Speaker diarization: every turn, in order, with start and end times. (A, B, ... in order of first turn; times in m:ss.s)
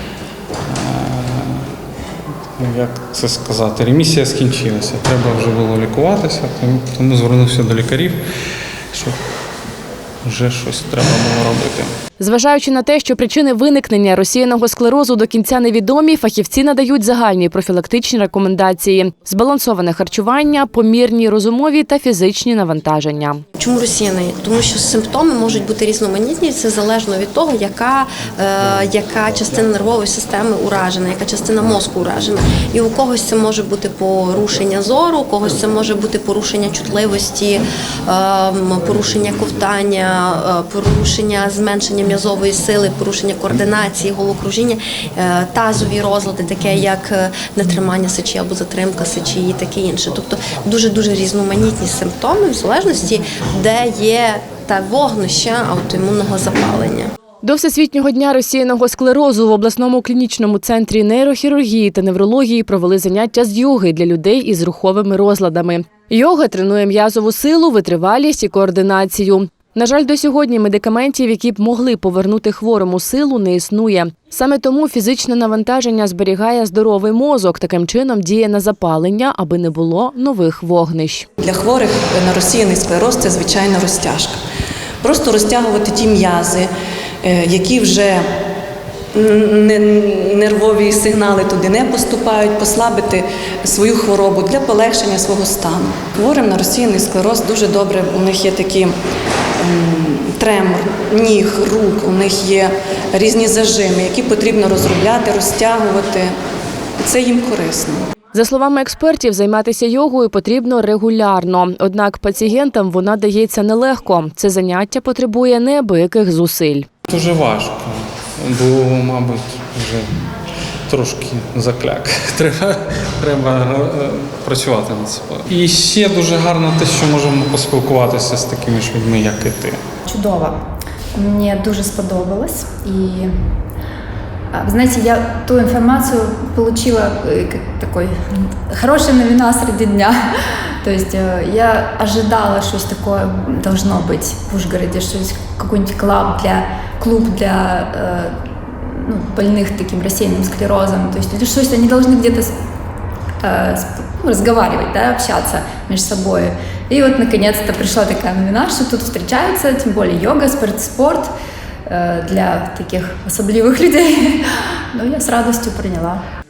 0:00.7-0:01.7 A
0:02.6-0:08.2 A
0:10.2-0:11.9 A
0:12.2-0:23.4 B
0:23.6-0:57.1 C
0:57.4-1:21.3 B
1:21.4-1:24.4 D
1:25.0-1:26.7 D
1:27.2-1:28.2 D
1:29.2-1:39.0 D
1:39.6-1:46.3 D
1:47.0-1:48.1 D
1:48.3-1:56.9 B
1:57.1-2:00.1 A
2:00.9-2:09.8 A
2:10.1-2:10.6 E
2:11.2-2:13.3 E
2:14.5-2:20.2 E
2:20.8-2:32.5 E
2:33.4-2:41.3 E
2:41.9-2:46.2 E